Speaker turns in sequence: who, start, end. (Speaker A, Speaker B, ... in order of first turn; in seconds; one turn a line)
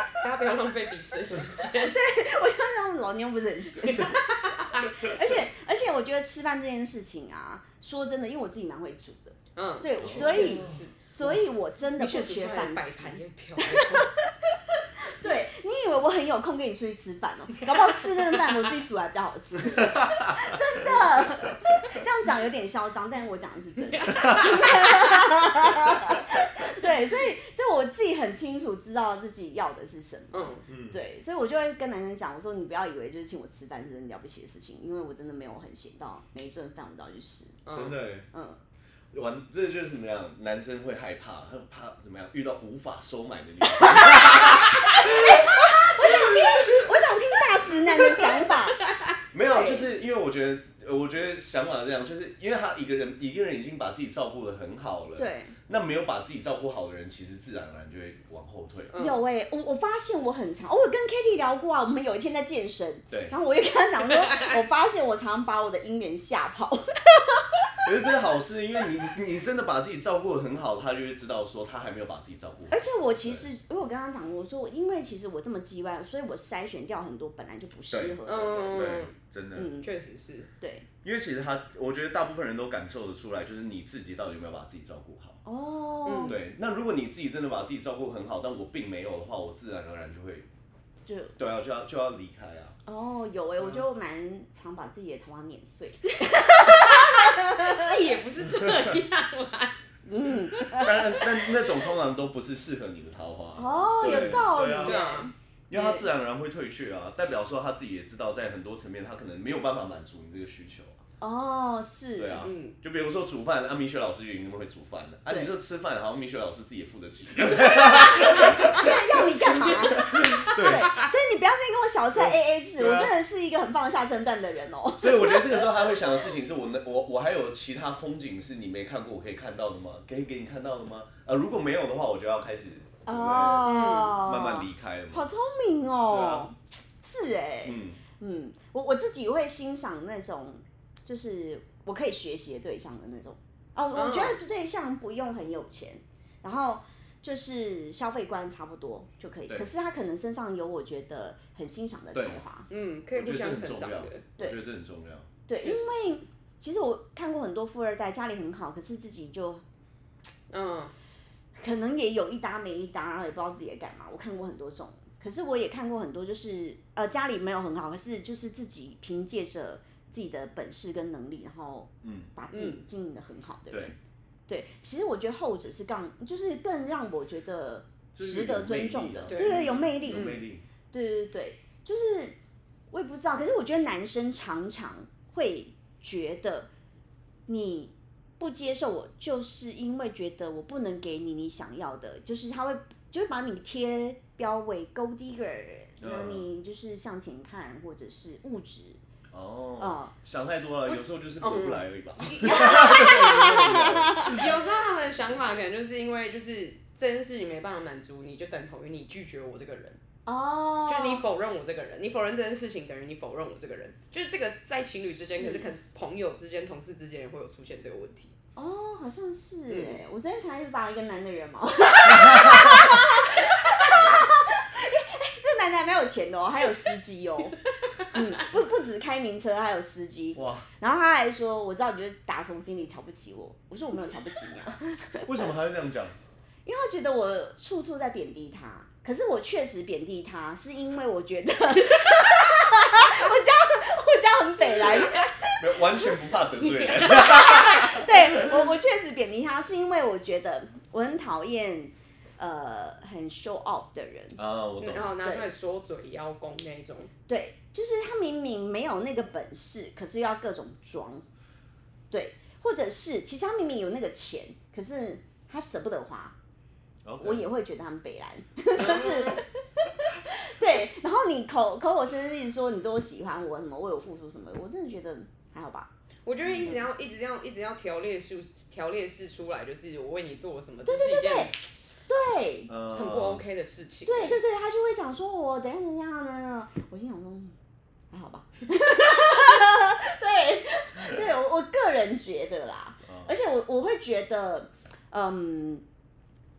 Speaker A: 0.2-2.0
Speaker B: 1.6-4.2
Speaker A: 3.8-4.9
Speaker B: 4.8-14.3
Speaker A: 9.6-11.0
Speaker C: 10.0-10.8
Speaker A: 11.9-14.1
Speaker B: 15.0-37.6
Speaker A: 17.6-18.7
Speaker C: 19.8-20.9
Speaker A: 23.9-25.1
Speaker A: 30.3-30.6
Speaker C: 30.7-31.0
Speaker A: 37.6-38.0
Speaker C: 37.7-38.2
Speaker B: 38.3-38.6
Speaker C: 39.1-46.9
Speaker B: 43.8-48.9
Speaker C: 49.3-59.0
Speaker B: 49.5-49.8
Speaker B: 55.2-55.5
Speaker A: 58.9-59.2
Speaker B: 59.0-67.7
Speaker A: 64.2-64.5
Speaker C: 67.8-73.5
Speaker B: 72.7-79.0
Speaker C: 77.9-78.2
Speaker A: 78.2-79.1
Speaker C: 78.7-79.7
Speaker B: 79.5-79.9
Speaker A: 79.8-80.5
Speaker B: 80.6-80.9
Speaker C: 81.0-85.4
Speaker B: 85.4-86.3
Speaker A: 86.0-86.4
Speaker C: 86.2-90.5
Speaker B: 91.1-91.3
Speaker C: 91.4-92.8
Speaker B: 92.8-98.0
Speaker C: 93.6-93.8
Speaker A: 96.6-99.8
Speaker B: 100.0-101.2
Speaker A: 100.5-101.4
Speaker C: 100.7-105.0
Speaker B: 103.6-105.3
Speaker A: 104.0-106.0
Speaker C: 105.7-111.0
Speaker B: 111.2-112.5
Speaker C: 112.2-121.1
Speaker A: 112.4-112.7
Speaker B: 117.5-126.2
Speaker A: 120.2-121.0
Speaker C: 122.1-123.1
Speaker C: 125.0-135.3
Speaker B: 133.1-152.7
Speaker A: 133.6-134.2
Speaker C: 136.1-136.5
Speaker C: 137.6-138.0
Speaker A: 143.9-144.4
Speaker C: 152.1-152.4
Speaker A: 152.7-154.2
Speaker C: 153.2-155.3
Speaker B: 155.5-159.6
Speaker A: 155.6-156.2
Speaker A: 160.5-160.9
Speaker B: 161.6-173.9
Speaker C: 172.0-172.3
Speaker A: 172.5-172.8
Speaker B: 174.5-182.3
Speaker C: 178.1-180.6
Speaker A: 179.3-180.4
Speaker B: 182.9-186.7
Speaker B: 187.5-199.0
Speaker C: 196.0-196.4
Speaker C: 199.3-204.6
Speaker B: 199.8-200.1
Speaker A: 200.9-202.6
Speaker B: 202.3-204.5
Speaker A: 204.2-210.0
Speaker B: 210.2-211.2
Speaker A: 210.9-218.3
Speaker B: 215.3-215.7
Speaker B: 218.6-235.4
Speaker A: 219.7-220.0
Speaker C: 222.2-222.9
Speaker A: 228.0-228.3
Speaker C: 230.3-230.7
Speaker C: 235.2-236.2
Speaker B: 236.7-246.1
Speaker C: 245.6-248.6
Speaker B: 246.9-254.4
Speaker C: 254.4-255.1
Speaker A: 254.8-257.1
Speaker B: 255.2-255.5
Speaker B: 257.3-261.2
Speaker B: 262.1-266.4
Speaker C: 267.0-267.4
Speaker B: 267.2-275.9
Speaker A: 276.2-281.5
Speaker C: 276.4-276.8
Speaker B: 280.9-282.7
Speaker C: 282.7-283.4
Speaker A: 282.9-284.4
Speaker B: 284.1-287.5
Speaker B: 288.1-295.8
Speaker C: 293.1-293.3